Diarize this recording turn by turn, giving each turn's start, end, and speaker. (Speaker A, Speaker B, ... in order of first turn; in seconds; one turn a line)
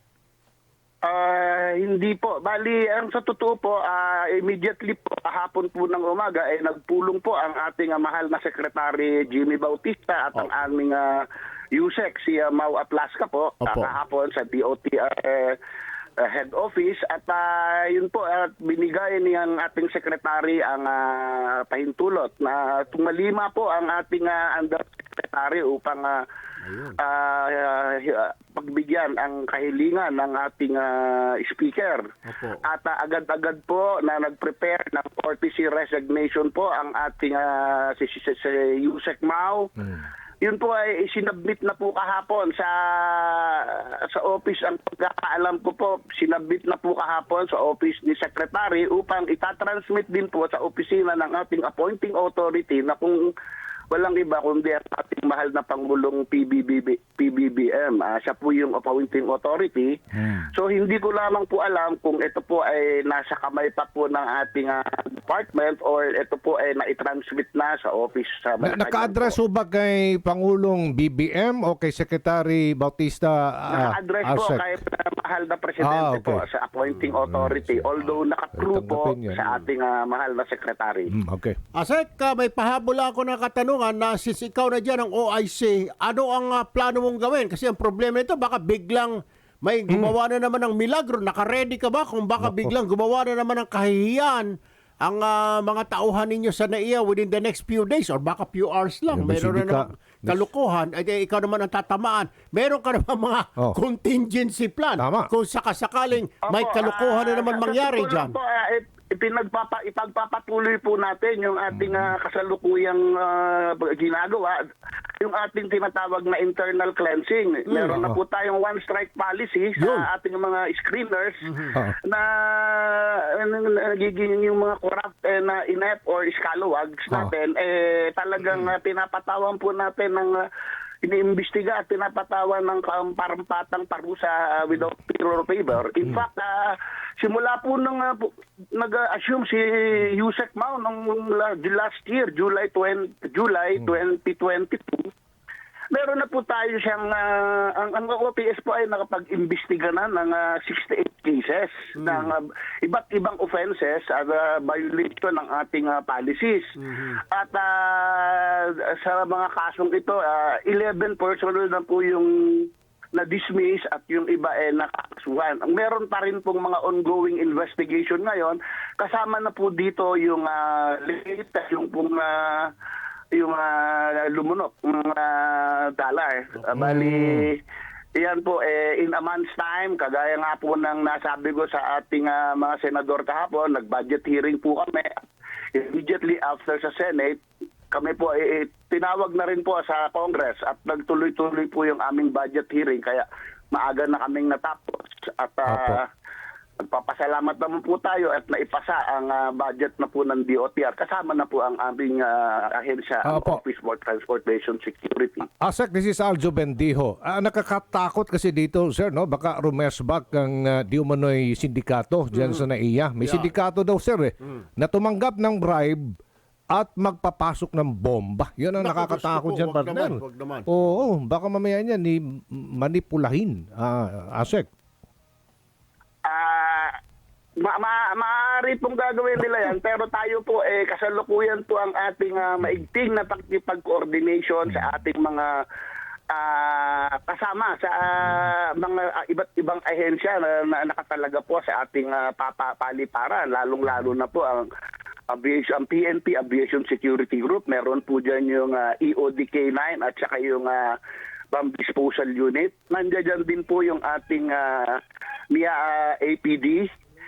Speaker A: 1.0-15.6
Speaker B: 13.6-13.9
Speaker A: 16.2-26.2
Speaker B: 26.6-27.0
Speaker A: 27.0-32.0
Speaker B: 32.3-32.6
Speaker A: 32.6-39.7
Speaker A: 40.4-53.2
Speaker A: 53.9-60.0
Speaker C: 60.2-60.5
Speaker A: 60.5-69.4
Speaker C: 68.6-74.6
Speaker A: 73.7-81.2
Speaker C: 75.8-76.4
Speaker C: 77.2-77.9
Speaker C: 78.6-79.4
Speaker C: 81.1-81.6
Speaker B: 81.8-108.3
Speaker C: 92.4-92.7
Speaker C: 99.1-100.4
Speaker C: 105.0-105.3
Speaker A: 106.5-114.6
Speaker C: 111.7-112.1
Speaker A: 115.2-130.4
Speaker B: 117.7-117.9
Speaker C: 117.9-118.2
Speaker B: 119.8-120.1
Speaker B: 121.5-121.8
Speaker A: 131.0-145.1
Speaker A: 145.9-172.7
Speaker B: 152.0-152.3
Speaker B: 156.9-157.2
Speaker A: 173.3-177.6
Speaker C: 176.8-177.5
Speaker A: 178.2-185.2
Speaker A: 185.7-187.4
Speaker A: 187.9-196.1
Speaker C: 195.7-196.0
Speaker A: 196.8-205.5
Speaker C: 203.3-203.6
Speaker C: 205.6-216.1
Speaker B: 213.2-213.5
Speaker C: 216.7-224.7
Speaker B: 218.8-220.7
Speaker A: 226.3-227.0
Speaker A: 227.6-235.6
Speaker A: 236.3-244.7
Speaker A: 245.3-251.0
Speaker A: 251.5-255.0
Speaker A: 255.5-256.9